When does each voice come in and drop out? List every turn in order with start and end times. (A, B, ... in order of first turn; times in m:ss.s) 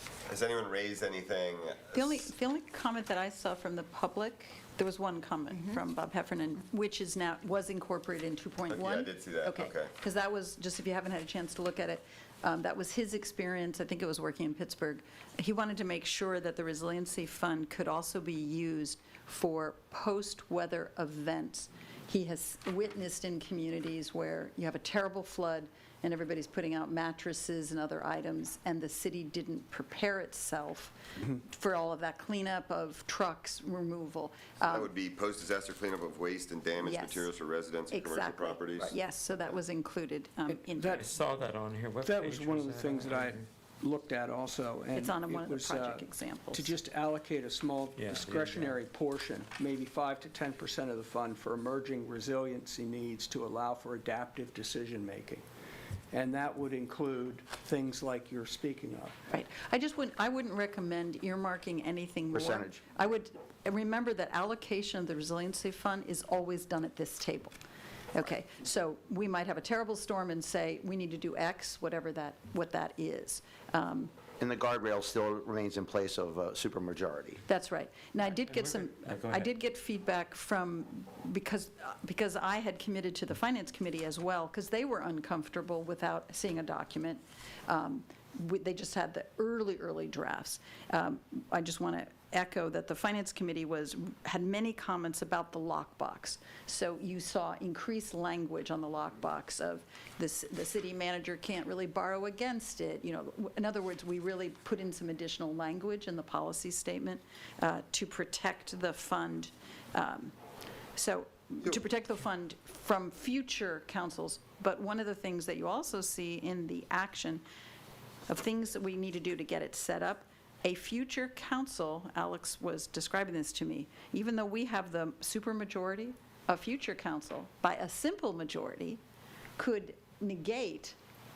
0:00.3-0:02.2 A
0:01.9-0:34.9 B
0:08.7-0:09.9 A
0:34.7-0:38.9 A
0:36.8-0:37.3 B
0:37.9-0:41.1 B
0:40.5-0:41.2 C
0:41.0-0:43.5 D
0:42.0-0:55.4 C
0:44.9-0:46.7 B
0:47.9-0:48.8 D
0:56.1-0:59.2 C
0:59.3-1:07.5 B
1:02.3-1:02.8 E
1:08.1-1:14.1 B
1:14.4-1:17.4 E
1:17.5-1:50.4 B
1:18.3-1:19.5 D
1:50.9-1:57.4 B
1:58.3-2:09.0 B
2:09.6-2:10.9 B